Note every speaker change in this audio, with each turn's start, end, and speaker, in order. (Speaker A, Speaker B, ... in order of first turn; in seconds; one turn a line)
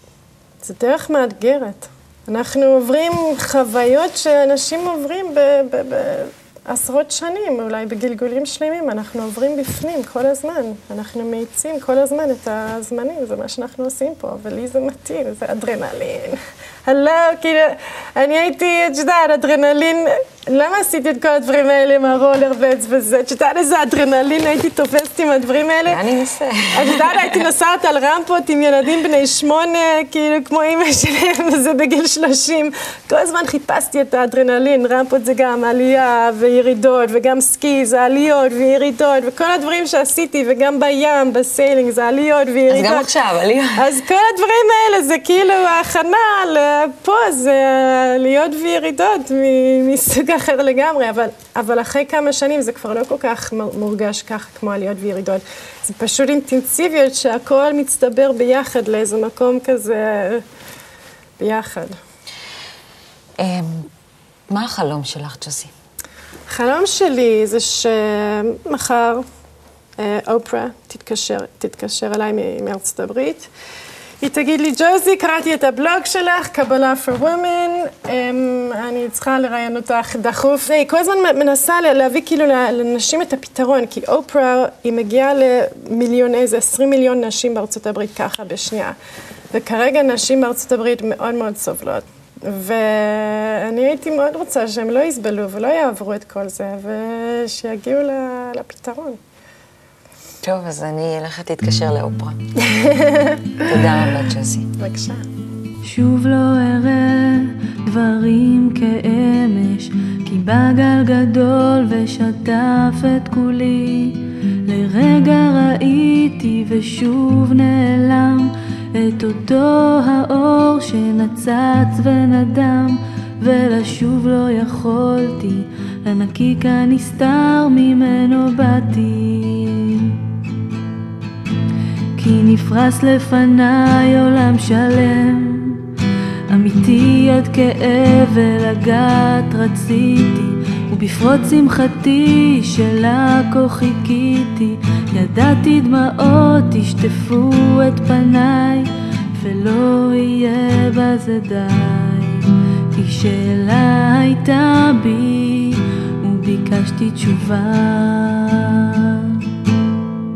Speaker A: 0.6-26.0
Speaker B: 25.9-27.4
Speaker A: 26.7-43.1
Speaker B: 42.7-43.9
Speaker A: 43.7-60.4
Speaker A: 61.4-61.9
Speaker B: 63.4-63.9
Speaker B: 64.5-65.7
Speaker A: 66.5-69.2
Speaker A: 70.0-73.5
Speaker A: 74.2-88.9
Speaker A: 89.5-99.2
Speaker B: 100.4-102.4
Speaker A: 102.6-103.7
Speaker B: 103.6-104.7
Speaker A: 104.8-105.2
Speaker C: 105.8-130.2
Speaker C: 132.2-135.8
Speaker C: 136.5-159.4